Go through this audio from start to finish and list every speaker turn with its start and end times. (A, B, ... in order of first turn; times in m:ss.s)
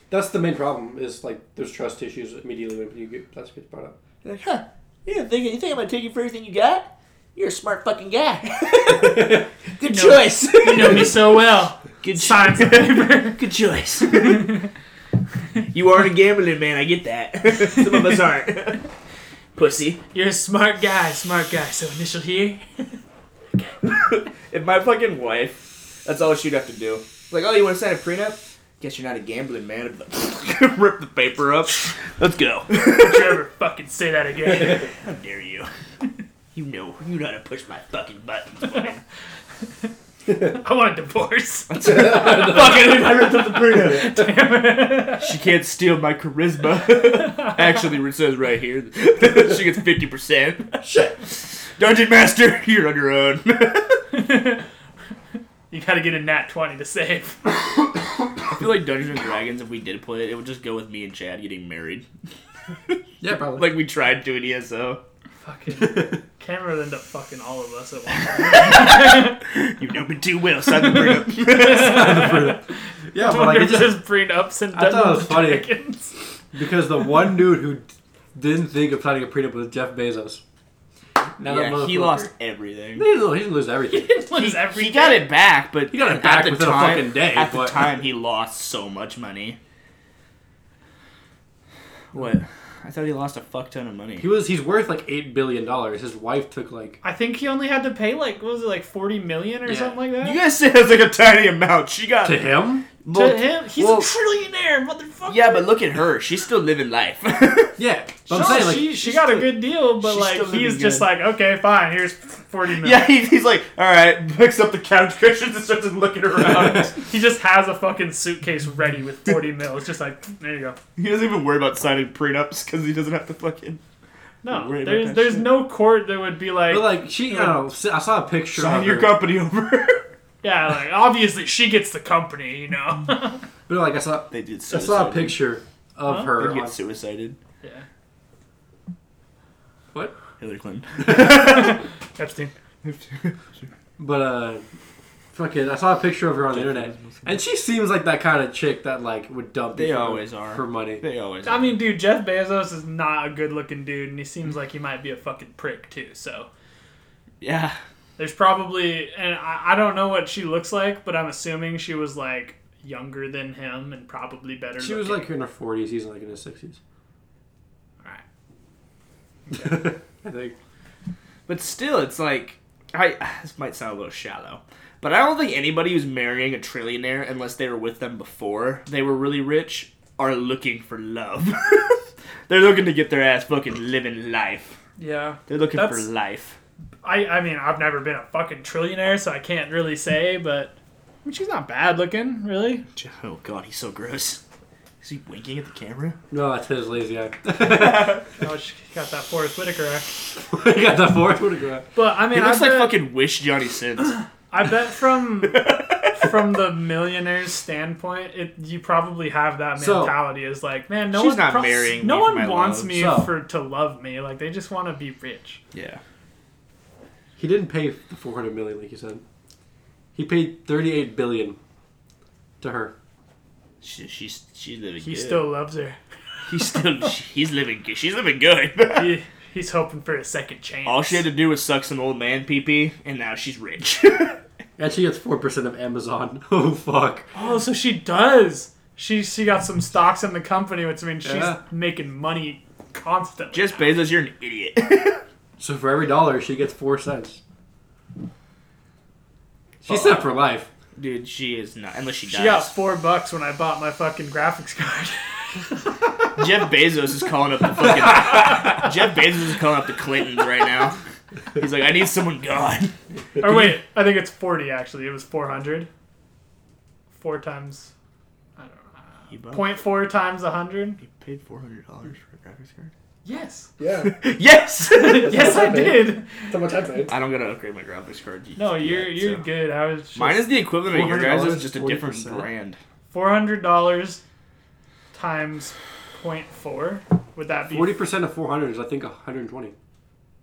0:00.1-0:04.0 A
0:04.2-0:11.4 B
0:08.9-0:09.4 A
0:09.8-0:13.4 C
0:12.0-0:14.6 B
0:14.1-0:14.6 C
0:15.7-0:18.8 B
0:19.5-0:20.0 B
0:20.1-0:23.0 C
0:23.5-0:23.8 C
0:23.8-0:33.4 B
0:32.8-0:34.9 C
0:34.5-0:35.7 B
0:36.5-0:39.0 B
0:40.3-0:41.7 C
0:41.7-0:44.2 B
0:41.8-0:44.2 A
0:43.9-0:45.3 C
0:45.2-0:50.8 B
0:50.8-0:51.2 A
0:51.7-0:54.0 B
0:54.1-0:54.6 C
0:55.7-0:57.6 C
0:58.5-1:02.0 B
1:03.2-1:03.7 A
1:03.5-1:05.0 B
1:05.4-1:09.4 C
1:05.8-1:06.2 A
1:08.3-1:12.4 B
1:10.8-1:16.2 C
1:11.6-1:14.0 A
1:14.7-1:15.7 A
1:16.5-1:20.4 A
1:21.4-1:22.3 A
1:21.4-1:23.1 B
1:23.0-1:24.2 A
1:23.9-1:25.3 C
1:24.4-1:29.6 B
1:25.9-1:27.9 A
1:32.1-1:34.3 B
1:34.2-1:37.0 A
1:37.0-1:40.4 C
1:39.7-1:39.9 A
1:40.2-1:42.4 B
1:42.2-1:42.9 A
1:43.0-1:44.1 B
1:43.1-1:45.6 C
1:45.3-1:47.8 B
1:47.8-1:48.9 A
1:48.3-1:53.1 C
1:48.3-1:51.1 B
1:52.8-1:57.0 B
1:56.5-1:56.9 A
1:57.1-2:00.8 C
2:01.0-2:03.8 B
2:04.4-2:07.6 C
2:04.4-2:05.5 B
2:06.7-2:09.1 A
2:08.5-2:10.0 B
2:10.4-2:13.4 C
2:13.7-2:16.7 A
2:14.3-2:15.4 B
2:16.0-2:16.3 C
2:16.3-2:17.4 B
2:20.4-2:21.8 B
2:21.1-2:22.5 C
2:22.8-2:23.7 B
2:24.0-2:24.6 A
2:25.3-2:31.0 A
2:26.5-2:27.4 B
2:29.7-2:31.8 B
2:31.4-2:36.5 C
2:37.4-2:37.8 B
2:38.2-2:45.3 C
2:44.8-2:46.8 A
2:49.5-2:50.5 A
2:51.5-3:04.8 B
3:05.0-3:06.1 C
3:05.5-3:06.6 B
3:07.0-3:12.8 C
3:12.9-3:14.4 B
3:15.0-3:16.2 B
3:16.3-3:18.2 A
3:17.5-3:18.2 B
3:18.4-3:20.1 C
3:20.4-3:21.9 A
3:21.9-3:22.9 C
3:22.3-3:24.2 B
3:24.5-3:35.6 C
3:25.5-3:26.3 B
3:29.8-3:30.2 A
3:31.1-3:32.9 B
3:32.9-3:33.3 A
3:35.7-3:36.0 B
3:37.4-3:39.2 A
3:40.1-3:41.6 A
3:42.6-3:42.9 A
3:43.8-3:45.4 B
3:45.0-3:46.0 C
3:46.5-3:49.1 B
3:48.9-3:51.2 C
3:50.9-3:54.4 B
3:54.8-3:57.3 A
3:57.4-4:04.0 C
4:01.2-4:01.6 A
4:03.5-4:05.2 B
4:05.6-4:07.4 A
4:09.8-4:10.7 A
4:09.8-4:10.3 B
4:11.0-4:12.7 B
4:12.3-4:16.0 C
4:16.4-4:21.0 B
4:21.6-4:22.9 B
4:23.4-4:25.9 C
4:27.1-4:27.9 C
4:28.6-4:31.0 C
4:29.3-4:29.8 B
4:31.0-4:32.9 B
4:33.2-4:33.7 C
4:33.8-4:34.1 A
4:34.0-4:35.6 B
4:34.9-4:36.6 C
4:35.1-4:37.1 A
4:37.1-4:39.4 B
4:38.6-4:40.5 C
4:40.1-4:42.8 B
4:40.9-4:42.5 A
4:43.1-4:44.2 C
4:45.1-4:48.0 C
4:47.7-4:49.7 A